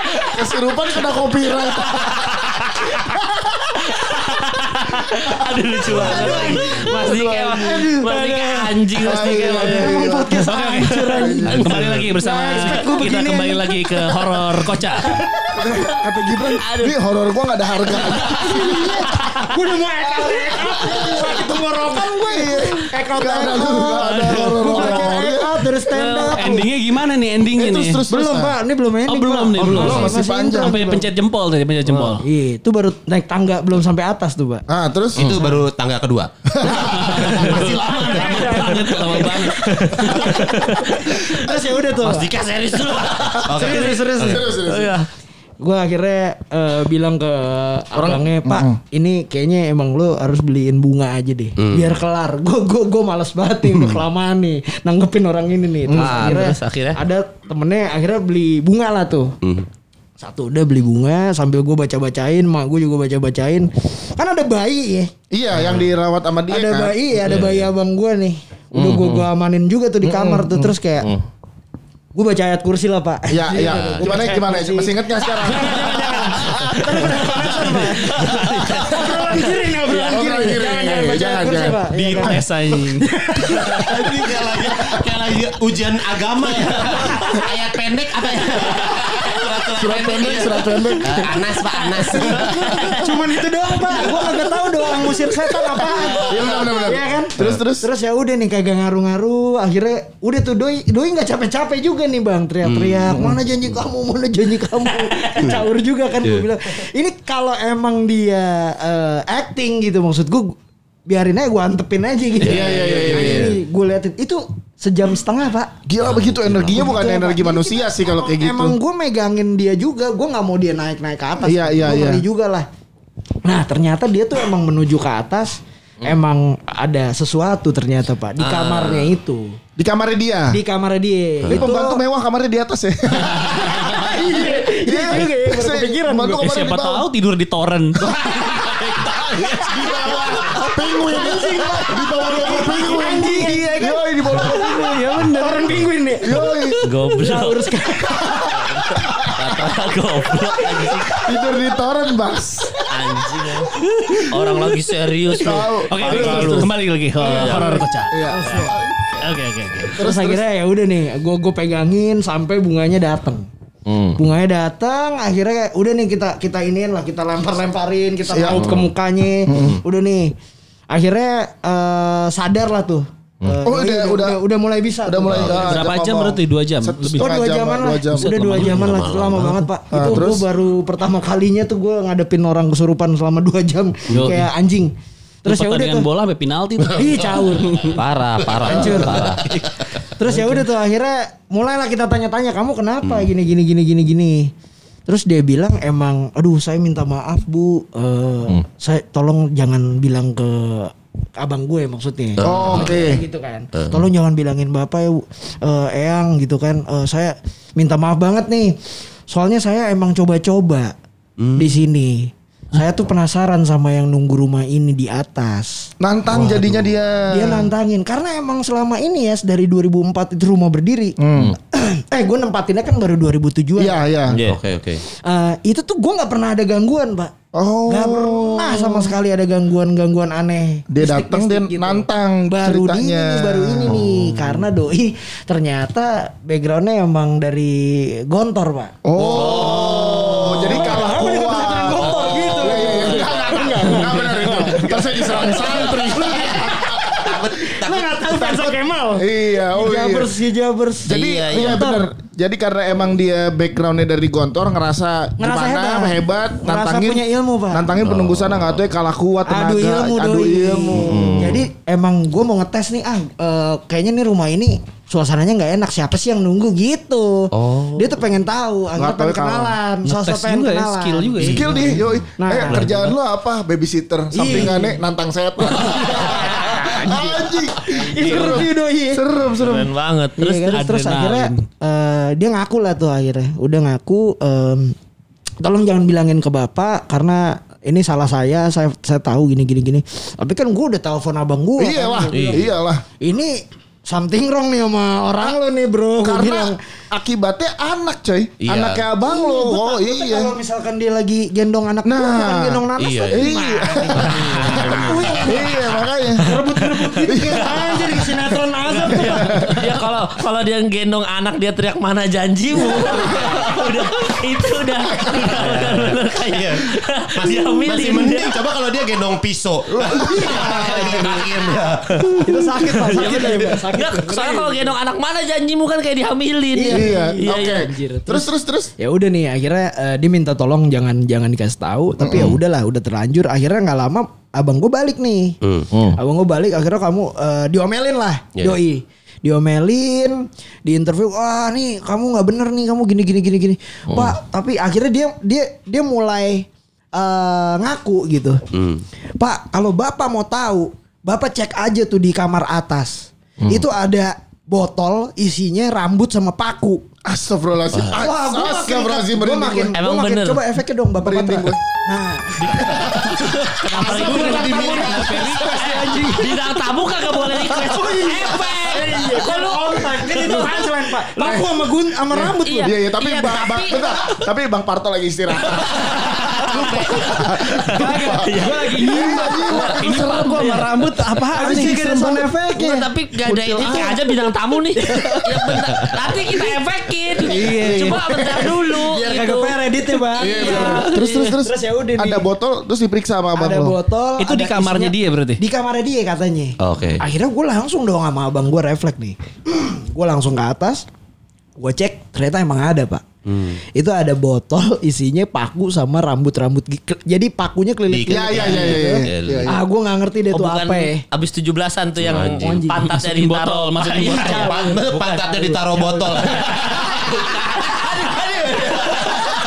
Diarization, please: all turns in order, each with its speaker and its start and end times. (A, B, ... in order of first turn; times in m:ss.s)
0:00.2-0:02.4 A
0:01.8-0:10.0 B
0:05.9-0:14.0 C
0:05.9-0:07.9 A
0:09.0-0:10.5 A
0:10.4-0:15.2 D
0:11.2-0:12.1 A
0:11.2-0:13.0 B
0:14.8-0:15.0 B
0:15.0-0:15.7 C
0:15.5-0:19.1 A
0:16.6-0:17.0 B
0:18.2-0:19.5 B
0:18.2-0:26.7 C
0:20.2-0:25.6 A
0:23.9-0:25.0 D
0:25.9-0:26.6 B
0:25.9-0:28.0 D
0:27.5-0:28.6 A
0:28.1-0:31.1 C
0:29.1-0:32.3 D
0:29.6-0:30.9 A
0:31.9-0:32.2 B
0:32.2-0:34.6 C
0:34.7-0:35.2 A
0:35.2-0:40.2 E
0:36.6-0:37.7 A
0:36.8-0:40.3 D
0:37.7-0:39.0 C
0:38.6-0:45.1 B
0:41.0-0:42.4 C
0:43.3-0:44.5 E
0:43.5-0:44.5 C
0:43.7-0:45.0 A
0:45.6-0:59.3 C
0:48.0-0:48.8 A
0:51.6-0:52.0 E
0:55.9-0:56.4 A
0:56.0-0:57.0 B
1:00.2-1:05.1 C
1:05.3-1:07.0 A
1:06.5-1:11.1 C
1:07.2-1:07.7 E
1:08.7-1:09.3 B
1:12.1-1:24.2 C
1:13.3-1:16.0 A
1:13.7-1:14.2 E
1:16.6-1:17.8 E
1:17.1-1:20.1 D
1:18.1-1:20.1 B
1:20.1-1:21.8 A
1:21.9-1:22.4 E
1:22.2-1:23.1 D
1:23.5-1:32.9 E
1:24.0-1:25.0 A
1:26.8-1:27.4 D
1:26.9-1:27.4 B
1:28.6-1:29.4 B
1:29.8-1:31.4 A
1:30.8-1:33.3 B
1:32.2-1:55.7 C
1:33.8-1:36.2 B
1:36.2-1:37.9 A
1:42.6-1:43.2 E
1:43.1-1:43.4 A
1:52.4-1:53.6 E
1:52.4-1:53.6 A
1:55.9-1:58.8 A
1:56.0-1:57.0 E
1:56.7-2:02.7 C
2:01.4-2:02.2 A
2:03.4-2:09.6 C
2:08.4-2:09.1 B
2:09.8-2:10.6 A
2:10.5-2:12.0 C
2:11.4-2:11.7 E
2:11.5-2:17.1 A
2:13.2-2:14.2 D
2:13.4-2:16.5 C
2:16.4-2:21.8 D
2:19.6-2:25.0 A
2:20.3-2:26.5 C
2:22.5-2:23.4 D
2:24.4-2:25.8 D
2:26.2-2:26.9 A
2:26.8-2:27.7 B
2:27.2-2:29.3 C
2:28.5-2:31.3 B
2:31.2-2:32.8 A
2:32.9-2:33.8 B
2:34.3-2:37.7 B
2:35.4-2:39.3 A
2:35.9-2:38.3 D
2:36.0-2:36.6 C
2:37.3-2:38.8 C
2:38.4-2:38.7 B
2:39.2-2:40.0 D
2:39.9-2:40.4 A
2:40.0-2:43.5 C
2:43.9-2:44.2 B
2:44.2-2:50.4 C
2:48.3-2:48.8 A
2:48.6-2:48.8 B
2:49.5-2:49.8 A
2:50.9-2:55.9 C
2:53.6-2:54.4 A
2:55.0-2:58.3 A
2:55.3-2:55.7 E
2:55.4-2:57.4 D
2:57.2-3:06.1 C
2:58.1-3:00.2 D
2:58.5-2:59.6 E
2:59.9-3:00.5 A
3:04.1-3:04.5 D
3:05.4-3:08.0 D
3:06.8-3:10.1 E
3:06.9-3:07.9 C
3:07.9-3:09.4 B
3:08.6-3:09.4 C
3:10.2-3:14.5 C
3:10.3-3:10.6 D
3:13.0-3:13.3 E
3:15.1-3:28.8 C
3:22.4-3:23.1 E
3:22.4-3:23.2 A
3:23.8-3:24.1 E
3:29.3-3:31.0 C
3:31.4-3:31.8 E
3:31.6-3:35.9 C
3:36.0-3:37.7 A
3:36.3-3:36.9 E
3:37.3-3:44.0 C
3:41.2-3:41.6 A
3:43.8-3:44.4 A
3:44.3-3:44.6 B
3:44.3-3:45.0 E
3:45.1-3:47.4 C
3:47.5-3:49.2 A
3:47.9-4:12.1 C
3:50.9-3:54.1 A
3:54.1-3:54.4 E
3:59.0-4:07.2 A
3:59.2-4:00.3 E
3:59.2-4:04.9 B
4:05.6-4:08.7 E
4:08.5-4:10.4 A
4:11.1-4:21.6 A
4:11.1-4:12.0 B
4:15.4-4:17.9 C
4:18.0-4:18.9 E
4:19.4-4:31.6 C
4:21.1-4:21.6 B
4:27.5-4:28.2 E
4:29.0-4:29.8 A
4:30.0-4:32.0 D
4:31.4-4:32.0 E
4:31.4-4:39.9 A
4:32.4-4:32.9 C
4:32.8-4:33.1 D
4:34.3-4:35.0 C
4:35.7-4:39.2 C
4:39.6-4:40.8 B
4:40.4-4:45.0 C
4:40.6-4:41.6 D
4:45.6-4:56.8 C
4:51.8-4:53.0 A
4:52.3-4:52.7 E
4:56.2-5:00.5 A
4:58.6-4:59.0 E
4:59.2-5:05.8 C
5:02.1-5:06.5 A
5:03.0-5:05.8 E
5:04.4-5:05.4 B
5:06.4-5:09.8 C
5:07.2-5:09.8 A
5:08.9-5:18.6 B
5:12.8-5:13.3 C
5:13.0-5:13.5 A
5:15.3-5:23.8 E
5:19.9-5:21.4 A
5:20.1-5:21.5 C
5:22.4-5:25.0 C
5:23.1-5:27.9 B
5:26.7-5:35.6 C
5:26.9-5:28.9 A
5:32.2-5:32.5 A
5:32.3-5:32.6 E
5:35.6-5:35.9 E
5:35.9-5:36.2 B
5:36.2-5:48.6 C
5:48.7-5:49.0 E
5:49.4-5:57.0 C
5:57.2-6:00.0 A
5:57.9-5:58.3 E
5:58.1-6:02.9 C
6:00.0-6:00.6 B
6:01.2-6:01.8 A
6:02.6-6:10.9 B
6:02.7-6:03.3 A
6:03.7-6:06.5 D
6:03.9-6:06.6 C
6:07.6-6:12.9 C
6:07.8-6:08.6 A
6:10.3-6:11.8 A
6:12.3-6:14.2 B
6:12.8-6:18.5 A
6:15.7-6:19.1 B
6:16.8-6:17.2 E
6:17.9-6:22.1 D
6:17.9-6:23.1 C
6:19.0-6:20.9 A
6:19.7-6:20.8 B
6:21.5-6:22.5 A
6:22.8-6:29.8 B
6:23.5-6:24.4 A
6:27.5-6:28.5 D
6:27.5-6:32.5 C
6:27.5-6:28.7 A
6:30.4-6:31.6 D
6:30.4-6:34.0 A
6:30.4-6:30.9 B
6:33.5-6:41.1 C
6:34.4-6:35.6 D
6:36.8-6:37.2 E
6:41.8-6:43.2 C
6:43.5-6:43.8 E
6:43.8-6:51.2 C
6:48.1-6:49.8 E
6:48.3-6:49.8 A
6:50.5-6:59.6 B
6:52.2-6:52.9 E
6:52.3-6:53.2 C
6:53.0-6:54.7 D
6:54.2-6:56.3 C
6:54.5-6:57.1 E